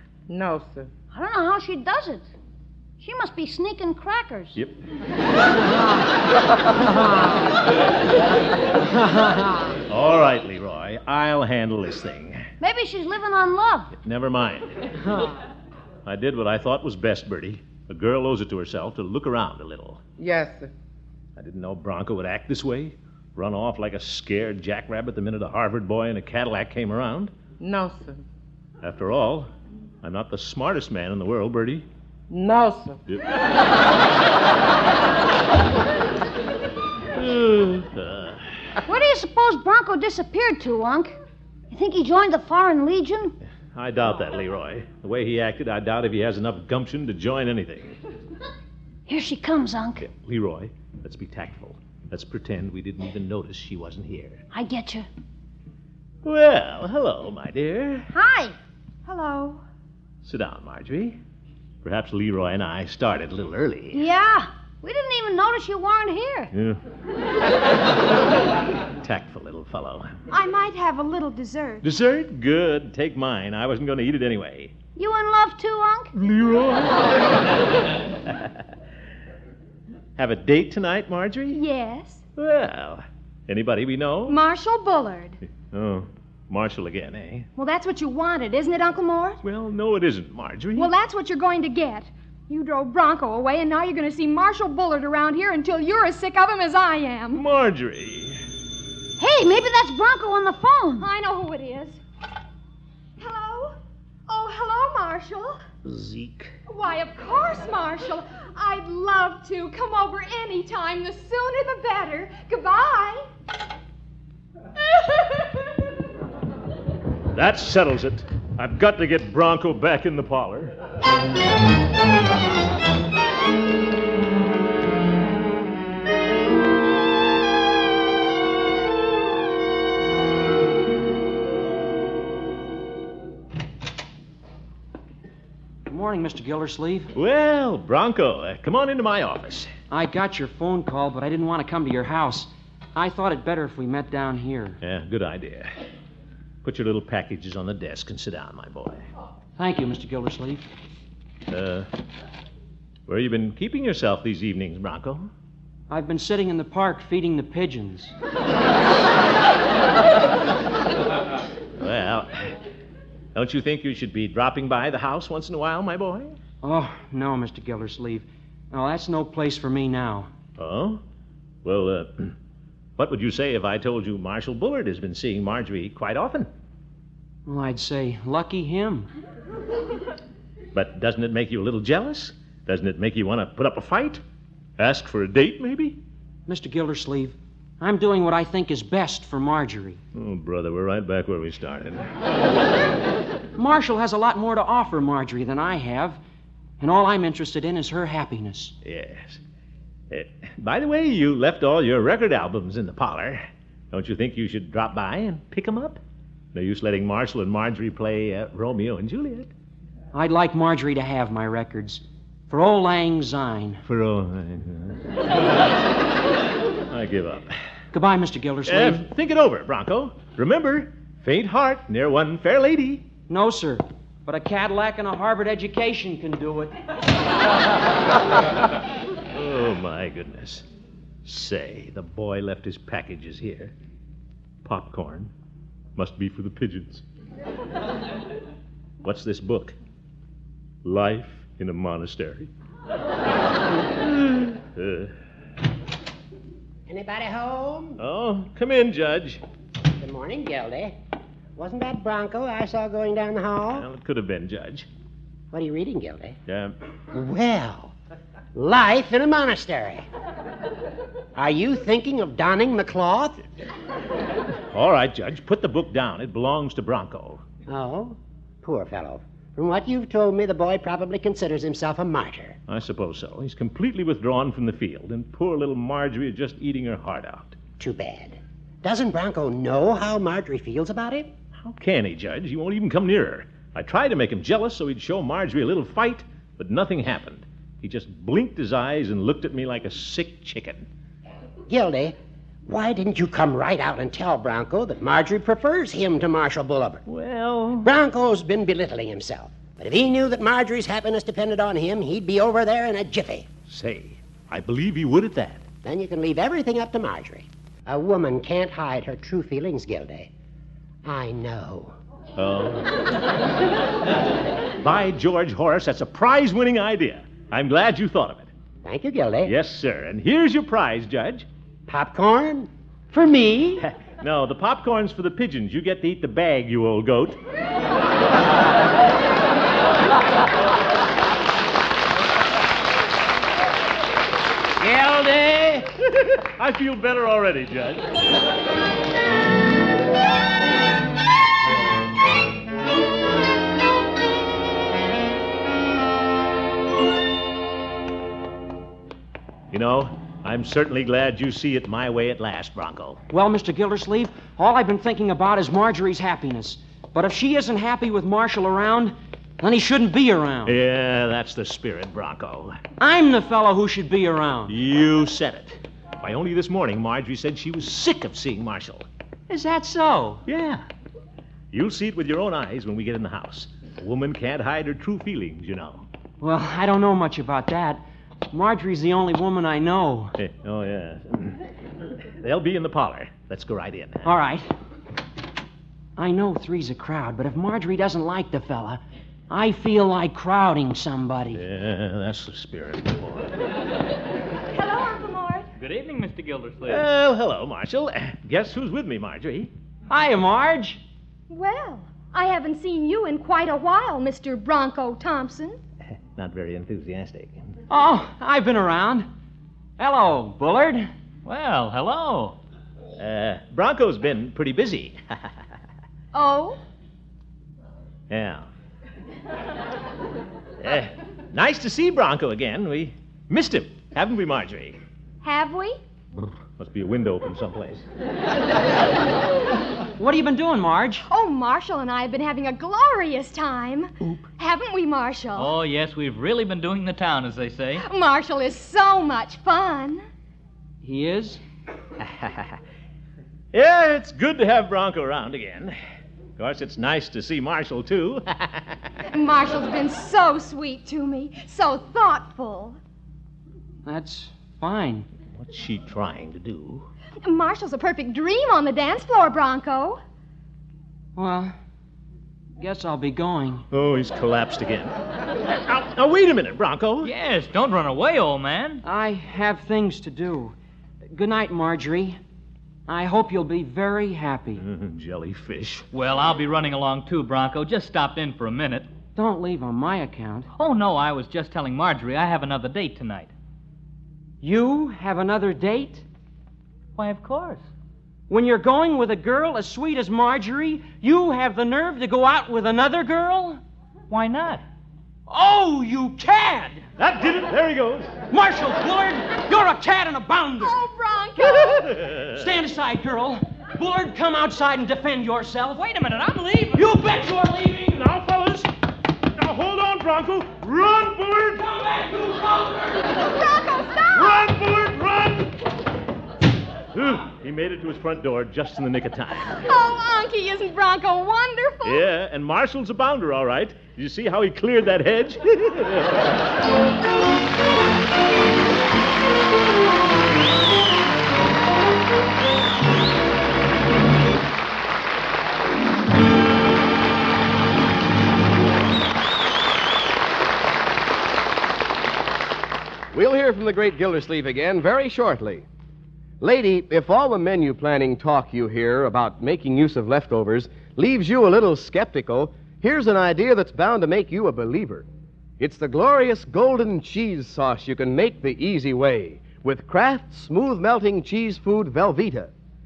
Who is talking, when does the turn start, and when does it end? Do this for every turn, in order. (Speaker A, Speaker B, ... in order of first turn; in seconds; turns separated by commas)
Speaker A: 0.3-0.9, Speaker B: 1.1-2.3, Speaker B: 3.0-4.6, Speaker C: 9.9-12.4, Speaker B: 12.6-13.9, Speaker C: 14.0-14.9, Speaker C: 16.1-20.0, Speaker A: 20.2-20.7, Speaker C: 21.4-27.3, Speaker A: 27.6-28.2, Speaker C: 28.8-29.5, Speaker C: 30.0-31.9, Speaker A: 32.3-33.0, Speaker C: 37.1-38.5, Speaker B: 38.9-41.2, Speaker B: 41.7-43.3, Speaker C: 43.8-48.0, Speaker B: 49.1-50.1, Speaker C: 50.0-54.4, Speaker B: 54.5-55.1, Speaker C: 56.2-58.1, Speaker B: 58.1-58.5, Speaker D: 59.1-59.6, Speaker C: 60.2-61.2, Speaker C: 61.8-64.1, Speaker B: 63.9-66.5, Speaker C: 66.5-66.8, Speaker C: 69.0-70.1, Speaker D: 70.3-71.8, Speaker C: 71.8-74.7, Speaker B: 75.0-76.1, Speaker C: 76.2-77.2, Speaker C: 80.2-81.6, Speaker D: 81.5-82.2, Speaker C: 82.4-84.4, Speaker D: 84.3-85.4, Speaker C: 85.7-87.5, Speaker D: 87.6-89.4, Speaker C: 89.4-90.9, Speaker D: 90.8-97.4, Speaker C: 97.3-98.4, Speaker B: 99.2-101.1, Speaker D: 101.0-102.0, Speaker D: 103.2-103.8, Speaker D: 104.3-105.6, Speaker C: 105.8-106.5, Speaker D: 106.7-113.2, Speaker C: 117.3-120.8, Speaker E: 135.9-137.1, Speaker C: 137.2-139.7, Speaker E: 139.9-144.8, Speaker C: 144.8-145.7, Speaker C: 146.6-149.0, Speaker E: 149.6-150.6, Speaker C: 151.5-151.9, Speaker C: 153.1-155.3, Speaker E: 155.9-158.1, Speaker C: 161.8-162.5, Speaker C: 163.3-166.4, Speaker E: 166.6-170.3, Speaker C: 170.6-171.0, Speaker C: 171.6-172.3, Speaker C: 173.0-176.5, Speaker E: 177.5-179.1, Speaker C: 180.7-184.2, Speaker C: 184.8-186.0, Speaker E: 186.5-190.0, Speaker C: 190.2-192.1, Speaker E: 193.6-196.2, Speaker E: 196.8-198.7, Speaker C: 198.8-199.4, Speaker C: 200.1-206.0, Speaker C: 206.5-209.5, Speaker E: 210.1-213.8, Speaker C: 213.9-215.4, Speaker C: 216.9-217.5, Speaker E: 217.9-219.1, Speaker C: 218.7-223.1, Speaker E: 223.3-226.8, Speaker C: 229.3-230.7, Speaker C: 231.2-233.7, Speaker C: 234.6-235.3, Speaker C: 236.0-237.0, Speaker C: 239.0-239.8, Speaker C: 240.8-242.5, Speaker C: 244.3-245.1, Speaker F: 246.9-248.0, Speaker C: 248.0-249.4, Speaker F: 249.9-251.0, Speaker F: 251.6-253.9, Speaker C: 253.7-254.9, Speaker F: 255.5-256.4, Speaker C: 256.5-256.8, Speaker F: 257.1-257.9, Speaker F: 258.6-260.1, Speaker F: 261.4-263.4, Speaker C: 264.7-267.4, Speaker F: 267.7-272.6, Speaker C: 272.7-277.6, Speaker F: 277.8-281.3, Speaker C: 281.6-290.9, Speaker F: 291.7-297.0, Speaker C: 297.1-297.9, Speaker F: 297.8-303.5, Speaker C: 303.7-305.6, Speaker F: 305.8-310.3, Speaker F: 311.0-311.9, Speaker C: 312.4-312.9, Speaker C: 314.8-318.5, Speaker F: 318.9-319.5, Speaker C: 319.4-321.5, Speaker F: 321.9-322.7, Speaker E: 323.1-323.8, Speaker C: 323.8-327.4, Speaker C: 334.8-338.1, Speaker C: 349.7-353.2, Speaker E: 353.3-360.8, Speaker C: 360.7-362.8, Speaker E: 363.0-364.7, Speaker C: 364.7-369.1, Speaker E: 369.5-370.4, Speaker C: 370.5-370.9, Speaker C: 371.7-376.1, Speaker E: 376.4-380.3, Speaker C: 380.4-381.6, Speaker C: 382.4-384.3, Speaker E: 384.2-384.7, Speaker E: 386.2-391.6, Speaker C: 391.5-393.6, Speaker D: 394.7-395.7, Speaker G: 395.8-397.1, Speaker C: 396.9-399.7, Speaker E: 400.1-401.0, Speaker D: 401.5-405.8, Speaker C: 406.4-407.7, Speaker E: 407.9-409.3, Speaker E: 410.0-411.1, Speaker G: 411.4-412.6, Speaker C: 413.2-415.4, Speaker D: 416.3-416.8, Speaker C: 418.3-418.7, Speaker C: 420.8-425.0, Speaker D: 425.4-426.0, Speaker C: 426.8-428.0, Speaker E: 430.2-431.2, Speaker D: 431.3-435.8, Speaker G: 435.6-438.0, Speaker D: 438.1-440.2, Speaker E: 441.0-441.6, Speaker C: 443.7-445.9, Speaker C: 446.6-448.9, Speaker D: 449.3-453.0, Speaker E: 454.1-455.3, Speaker C: 455.5-457.1, Speaker D: 457.4-460.2, Speaker E: 461.4-461.7, Speaker E: 462.8-463.9, Speaker C: 463.9-465.1, Speaker C: 465.7-467.3, Speaker G: 467.2-469.0, Speaker E: 469.0-470.8, Speaker E: 471.3-472.4, Speaker E: 473.1-474.8, Speaker C: 474.8-476.1, Speaker G: 476.1-479.1, Speaker E: 479.4-480.7, Speaker G: 480.8-483.5, Speaker E: 484.6-486.2, Speaker G: 487.2-487.8, Speaker E: 488.5-493.8, Speaker G: 494.3-494.8, Speaker E: 495.5-497.0, Speaker C: 497.2-498.3, Speaker E: 498.5-501.0, Speaker D: 500.8-502.2, Speaker E: 501.9-506.1, Speaker C: 502.1-502.6, Speaker G: 505.9-507.1, Speaker E: 506.9-508.2, Speaker C: 508.1-508.9, Speaker C: 509.6-511.8, Speaker E: 511.8-513.4, Speaker D: 513.4-514.7, Speaker C: 514.3-515.8, Speaker C: 517.1-519.8, Speaker D: 519.8-522.3, Speaker C: 522.0-526.6, Speaker H: 543.3-545.9, Speaker H: 546.6-555.3, Speaker H: 555.8-562.7